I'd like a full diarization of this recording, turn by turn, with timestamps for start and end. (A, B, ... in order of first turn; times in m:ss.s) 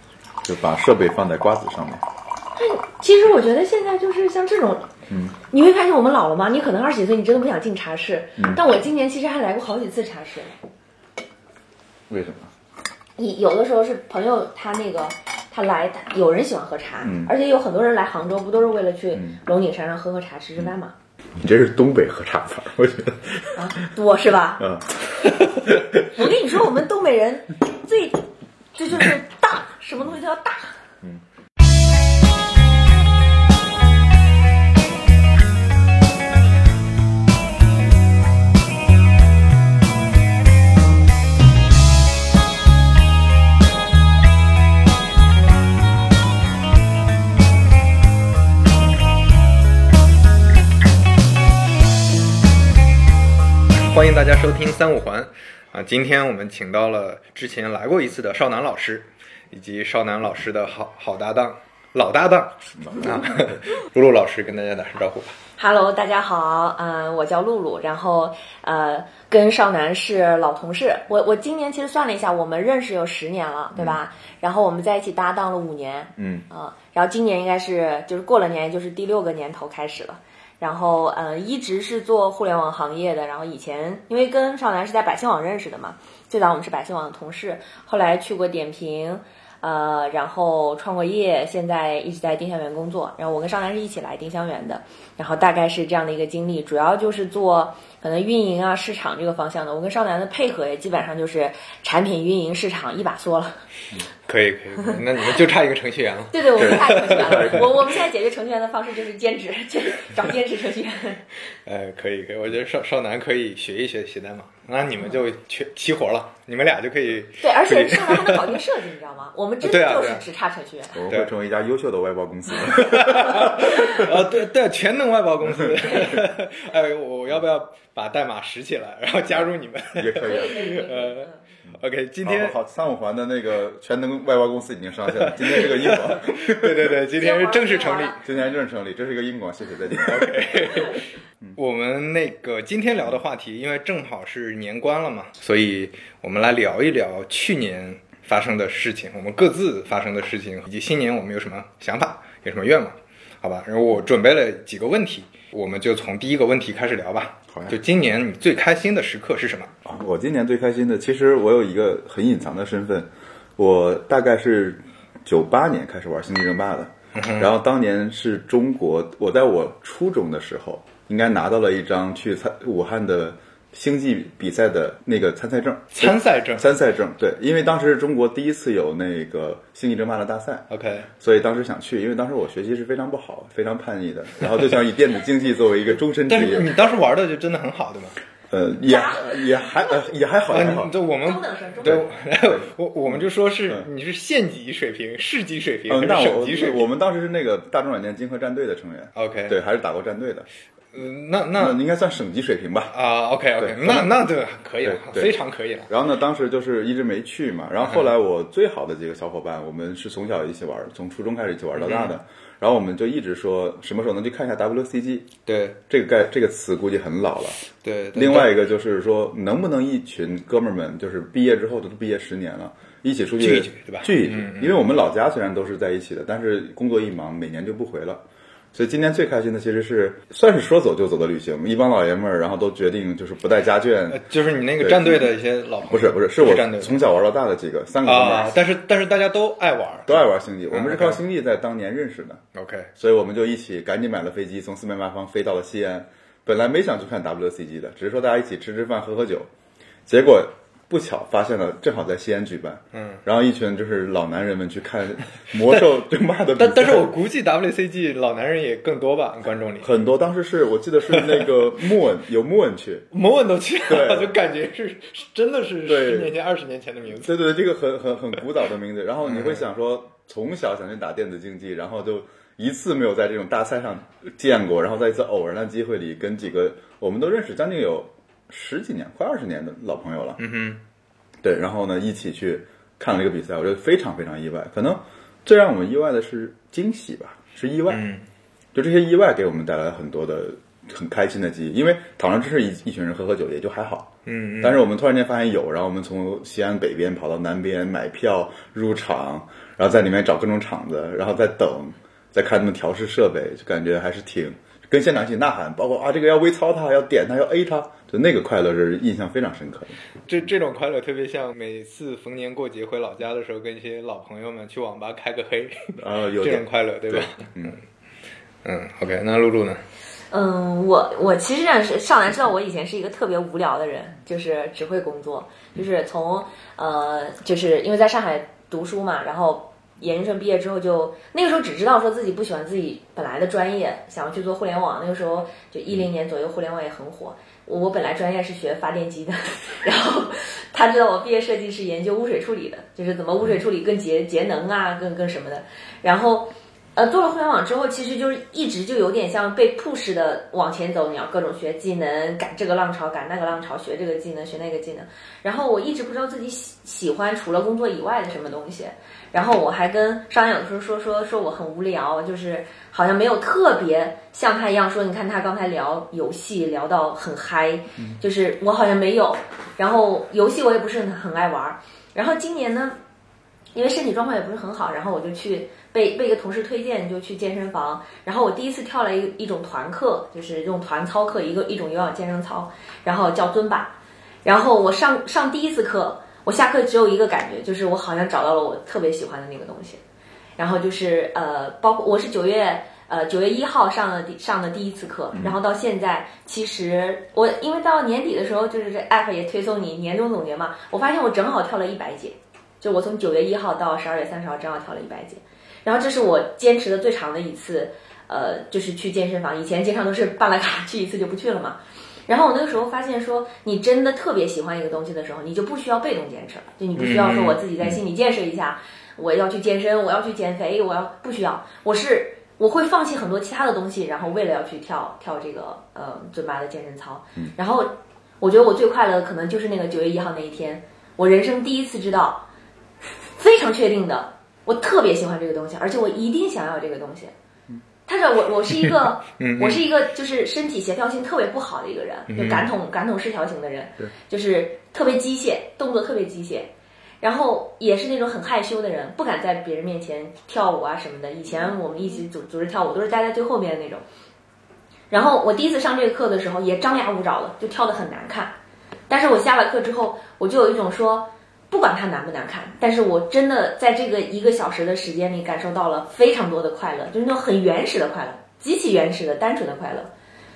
0:00.4-0:02.0 A
0:02.6-0:04.9 B
0:05.5-0:10.6 B
0:12.1-0:12.5 A
0:13.2-0:20.9 B
0:17.0-0:17.3 A
0:21.4-0:23.6 A
0:23.5-0:24.6 B
0:24.6-0:24.9 A
0:26.0-0:28.2 B
0:28.7-0:30.8 B
0:53.7-1:05.4 C
1:02.8-1:03.5 A
1:05.6-1:43.6 B
1:16.2-1:16.4 A
1:44.3-1:47.6 C
1:46.3-1:51.2 B
1:46.6-1:47.7 A
1:51.6-1:58.6 C
1:57.4-2:01.0 B
1:59.6-2:00.2 C
2:00.9-2:04.2 A
2:02.7-2:12.6 C
2:05.5-2:06.0 A
2:09.3-2:10.7 A
2:10.2-2:11.4 B
2:11.6-2:17.0 A
2:15.2-2:18.2 C
2:17.2-2:18.2 B
2:18.2-2:20.8 A
2:20.0-2:39.7 C
2:39.8-3:00.7 A
2:47.1-2:47.5 C
2:55.9-2:56.6 C
3:00.7-3:01.1 C
3:01.2-3:06.7 A
3:06.3-3:08.2 C
3:08.5-3:10.9 A
3:08.8-3:10.1 B
3:10.5-3:16.8 C
3:11.2-3:12.0 B
3:11.8-3:13.9 A
3:15.9-3:20.5 A
3:19.2-3:19.6 C
3:20.9-3:21.8 C
3:21.6-3:22.9 A
3:22.9-3:25.9 C
3:23.6-3:24.2 A
3:24.8-3:25.4 A
3:25.9-3:35.3 A
3:31.8-3:32.2 C
3:35.4-3:35.8 C
3:35.9-3:54.2 A
3:37.8-3:38.5 C
3:43.4-3:44.8 C
3:54.1-3:57.0 C
3:54.8-3:55.2 A
3:55.9-3:58.5 A
3:58.0-4:01.2 C
4:00.0-4:02.4 A
4:02.5-4:02.9 C
4:03.0-4:09.5 A
4:10.0-4:17.1 A
4:12.9-4:13.2 C
4:16.6-4:19.9 C
4:19.8-4:23.1 A
4:21.1-4:21.5 C
4:23.1-4:27.3 C
4:23.9-4:24.3 A
4:25.8-4:26.3 A
4:27.1-4:40.4 A
4:29.2-4:29.6 C
4:40.4-4:40.8 C
4:41.4-4:48.0 A
4:47.9-4:48.2 C
4:48.7-4:54.1 A
4:54.2-4:54.8 C
4:54.6-5:10.0 A
5:10.3-5:17.8 C
5:16.0-5:17.8 A
5:18.6-5:19.8 C
5:20.3-6:12.9 B
6:13.7-6:30.0 B
6:30.6-7:12.4 B
6:57.0-6:57.6 C
7:13.4-7:17.3 B
7:18.0-7:26.7 B
7:19.4-7:19.8 C
7:22.3-7:22.7 C
7:27.2-7:34.0 B
7:35.1-7:38.5 B
7:39.1-7:50.1 B